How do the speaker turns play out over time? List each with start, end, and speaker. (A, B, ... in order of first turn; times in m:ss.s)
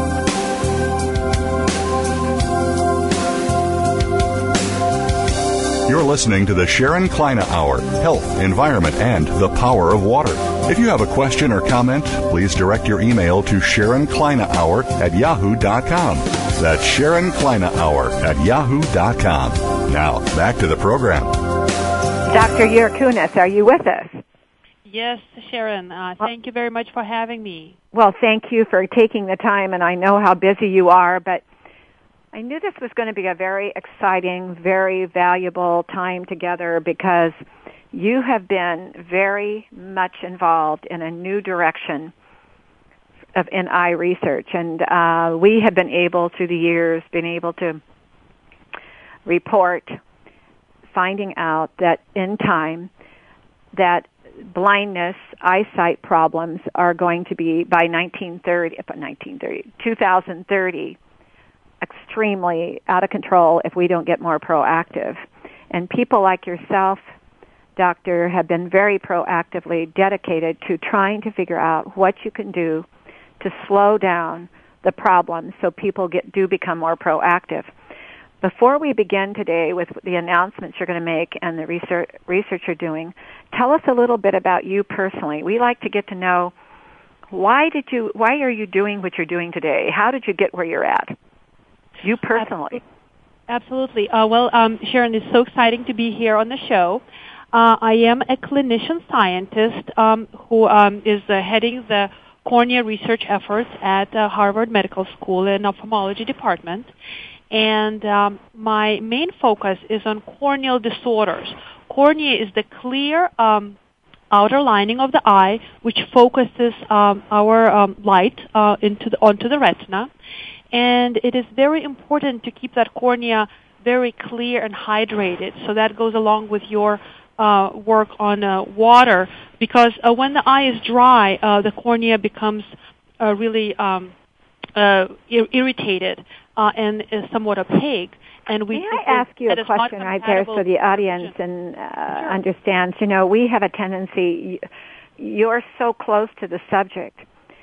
0:05.9-0:21.3 A
0:22.3-0:24.2 B
0:24.8-0:27.8 C
0:27.9-0:31.4 B
0:32.3-0:37.4 B
0:37.9-0:42.1 B
0:43.4-0:47.8 B
0:49.3-0:50.0 B
0:50.9-0:52.9 B
0:53.7-1:01.0 B
1:01.8-1:07.1 B
1:07.8-1:12.9 B
1:13.4-1:17.7 B
1:18.4-1:26.5 B
1:27.3-1:31.2 B
1:32.0-1:32.8 B
1:32.3-1:32.8 C
1:33.5-1:46.9 C
1:47.5-1:53.8 C
1:54.3-2:00.1 C
2:00.7-2:14.1 C
2:14.8-2:21.4 C
2:18.7-2:24.6 B
2:22.1-2:22.4 C
2:25.2-2:27.3 B